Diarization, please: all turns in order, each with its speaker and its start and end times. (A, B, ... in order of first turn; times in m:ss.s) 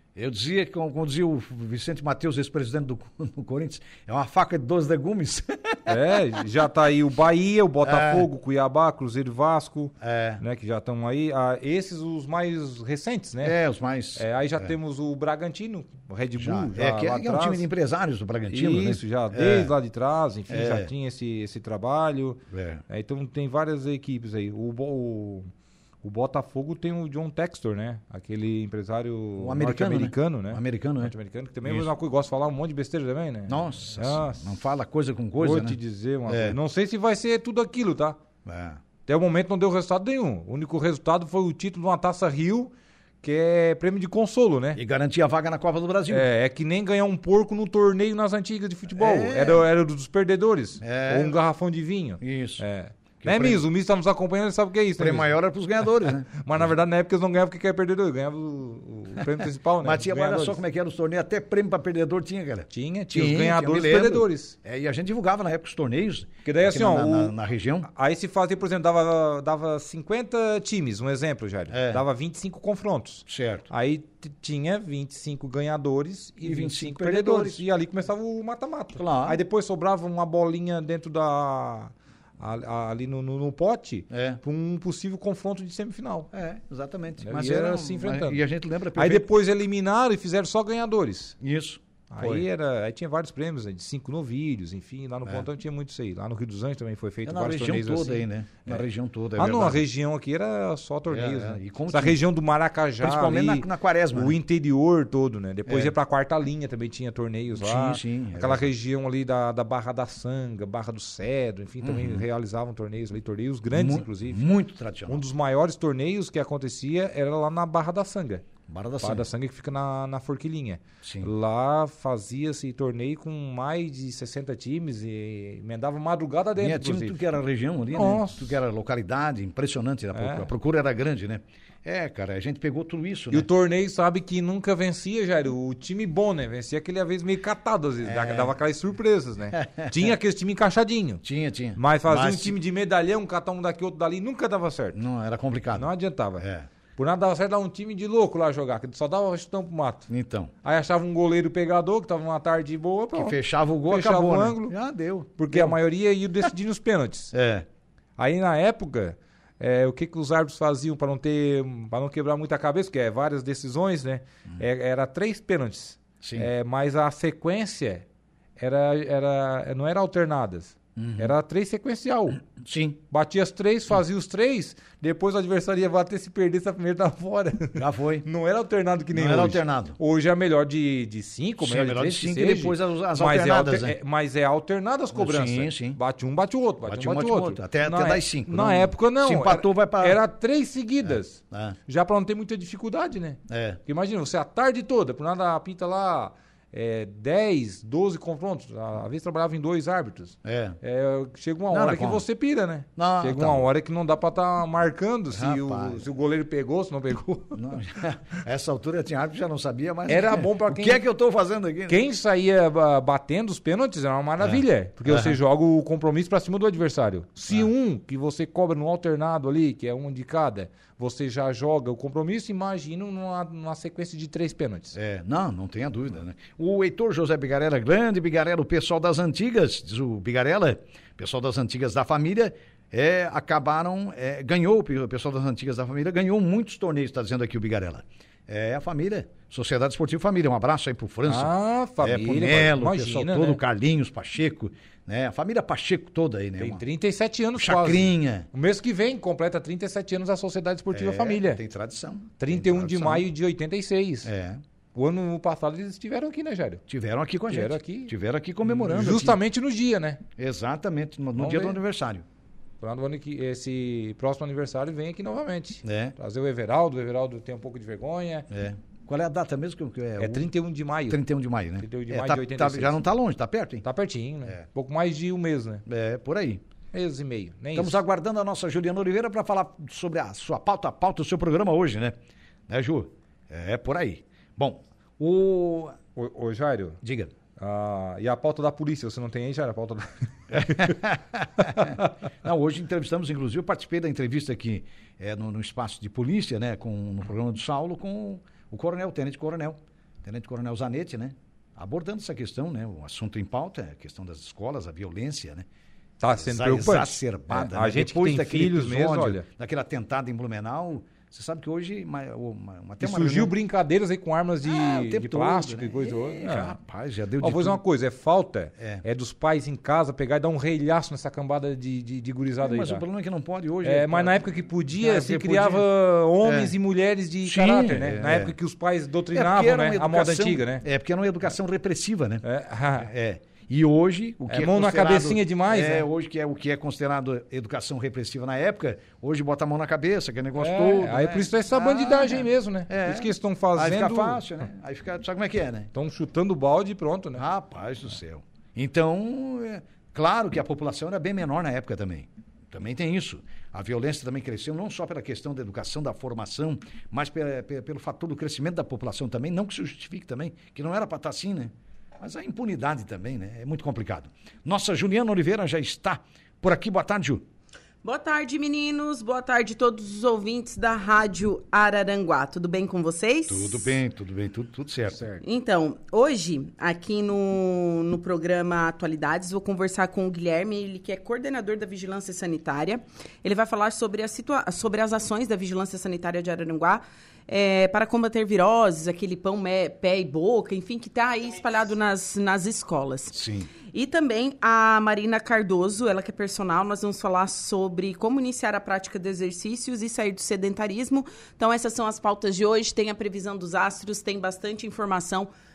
0:00.2-0:06.4 A
0:05.9-0:13.6 B
0:07.8-0:08.3 A
0:10.0-0:10.4 A
0:13.4-0:14.7 A
0:14.2-0:17.6 B
0:16.4-0:19.7 A
0:18.5-0:25.5 B
0:20.5-0:20.9 A
0:22.5-0:22.8 A
0:26.0-0:34.6 B
0:29.4-0:31.1 A
0:33.5-0:36.6 A
0:35.4-0:38.2 B
0:38.4-0:38.8 A
0:39.1-0:42.7 B
0:43.2-0:44.8 B
0:44.7-0:46.3 A
0:46.1-0:55.3 B
0:48.9-0:49.6 A
0:50.8-0:51.4 A
0:52.2-0:52.6 A
0:53.2-0:53.6 A
0:55.0-0:56.3 A
0:56.0-1:00.6 B
0:59.8-1:07.9 A
1:02.7-1:04.6 B
1:06.4-1:07.4 B
1:07.9-1:26.3 B
1:11.7-1:12.0 A
1:13.3-1:13.7 A
1:16.4-1:17.6 A
1:19.0-1:19.4 A
1:24.1-1:24.4 A
1:26.3-1:29.3 A
1:27.2-1:31.4 B
1:31.4-1:32.4 A
1:32.1-1:38.8 B
1:37.2-1:39.8 A
1:39.4-1:54.5 B
1:41.1-1:42.2 A
1:43.0-1:44.4 A
1:45.7-1:45.9 A
1:47.5-1:48.7 A
1:51.8-1:52.2 A
1:53.7-1:55.2 A
1:55.1-1:58.4 B
1:58.7-1:59.2 A
1:59.0-2:07.2 B
2:01.0-2:01.3 A
2:06.6-2:13.5 A
2:07.9-2:08.6 B
2:10.1-2:10.5 B
2:13.3-2:21.2 B
2:18.0-2:18.5 A
2:19.5-2:19.9 A
2:21.2-2:22.6 A
2:21.8-2:25.0 B
2:24.9-2:26.7 A
2:25.7-2:26.4 B
2:27.0-2:30.1 B
2:30.1-2:30.5 A
2:30.6-2:34.8 B
2:33.1-2:35.8 A
2:35.4-2:37.3 B
2:37.3-2:37.6 A
2:38.2-2:48.0 B
2:46.2-2:46.5 A
2:48.6-2:52.4 B
2:51.0-2:51.3 A
2:52.6-2:53.0 A
2:53.1-3:27.6 B
2:57.7-2:58.3 A
2:59.1-3:00.0 A
3:01.6-3:03.9 A
3:05.1-3:06.0 A
3:06.8-3:10.2 A
3:11.0-3:11.8 A
3:13.5-3:13.8 A
3:20.4-3:20.8 A
3:21.7-3:22.2 A
3:23.0-3:23.7 A
3:25.3-3:26.0 A
3:27.5-3:32.0 A
3:30.0-3:31.0 B
3:31.9-3:44.9 B
3:34.4-3:35.4 A
3:44.9-4:06.8 A
4:01.2-4:03.6 B
4:06.6-4:11.6 B
4:07.6-4:08.5 A
4:10.9-4:13.3 A
4:12.4-4:14.3 B
4:14.2-4:14.6 A
4:14.9-4:16.8 B
4:16.9-4:19.4 A
4:17.5-4:18.1 B
4:18.6-4:20.2 B
4:20.4-4:22.2 A
4:21.4-4:21.8 B
4:22.8-4:28.5 B
4:25.8-4:26.1 A
4:28.5-4:30.5 A
4:30.2-4:31.2 B
4:31.1-4:33.8 A
4:31.8-4:33.0 B
4:33.8-4:35.8 B
4:35.8-4:36.6 A
4:36.9-4:38.0 B
4:37.7-4:42.2 A
4:42.7-4:46.0 A
4:46.2-4:47.0 B
4:47.0-4:47.3 A
4:47.6-4:50.9 B
4:50.5-5:05.6 A
4:51.7-4:52.0 B
5:06.2-5:09.4 B
5:06.3-5:13.5 A
5:13.0-5:16.8 B
5:14.6-5:17.8 A
5:17.4-5:23.0 B
5:18.8-5:19.0 A
5:22.6-5:25.9 A
5:23.8-5:30.8 B
5:26.4-5:26.7 A
5:27.4-5:28.5 A
5:29.3-5:45.9 A
5:32.4-5:33.1 B
5:34.5-5:36.1 B
5:40.6-5:44.5 B
5:45.9-5:47.4 B
5:47.4-6:07.4 A
6:08.0-6:13.9 C
6:13.5-6:15.4 A
6:15.4-6:45.5 C
6:33.3-6:33.7 A